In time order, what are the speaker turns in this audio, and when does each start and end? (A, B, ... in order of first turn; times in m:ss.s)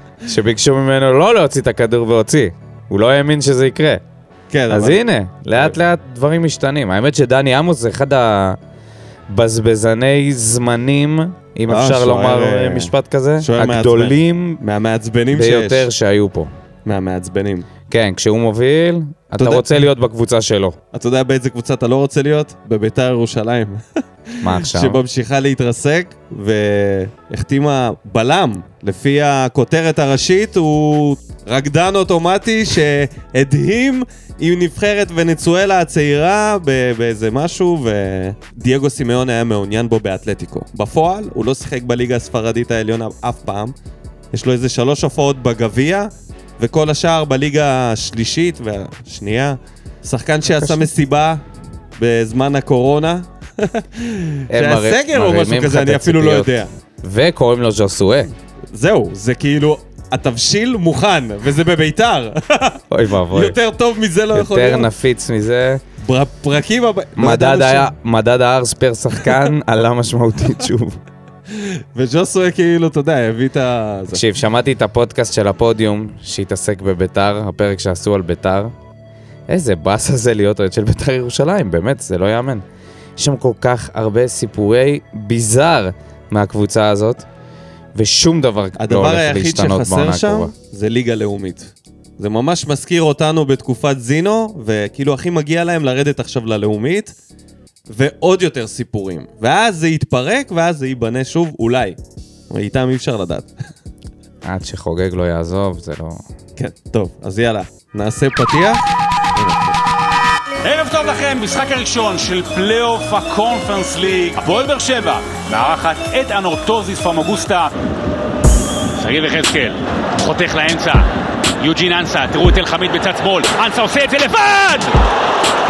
0:00.2-0:04.0 A
0:04.5-0:05.0 B
0:04.7-0:08.6 A
0:09.3-0:14.6 A
0:11.7-0:15.9 B
0:15.3-0:16.5 A
0:16.8-0:17.7 B
0:17.9-0:20.8 A
0:19.4-0:19.7 B
0:20.9-0:43.7 B
0:24.4-0:25.0 A
0:44.3-0:51.4 B
0:50.4-0:50.8 A
0:52.0-0:56.7 B
0:54.5-0:58.3 A
0:58.7-1:04.9 B
1:02.9-1:03.6 A
1:04.3-1:05.8 A
1:06.0-1:07.9 B
1:07.2-1:11.0 A
1:09.2-1:09.5 B
1:11.5-1:14.2 B
1:14.1-1:18.7 A
1:19.5-1:22.6 A
1:23.2-1:27.2 A
1:27.9-1:30.5 A
1:28.8-1:37.1 B
1:37.9-1:42.0 B
1:42.5-1:43.5 B
1:44.4-1:46.2 A
1:46.6-1:48.8 B
1:49.3-1:49.8 B
1:50.6-1:57.7 C
1:59.0-2:01.1 C
2:01.6-2:05.0 C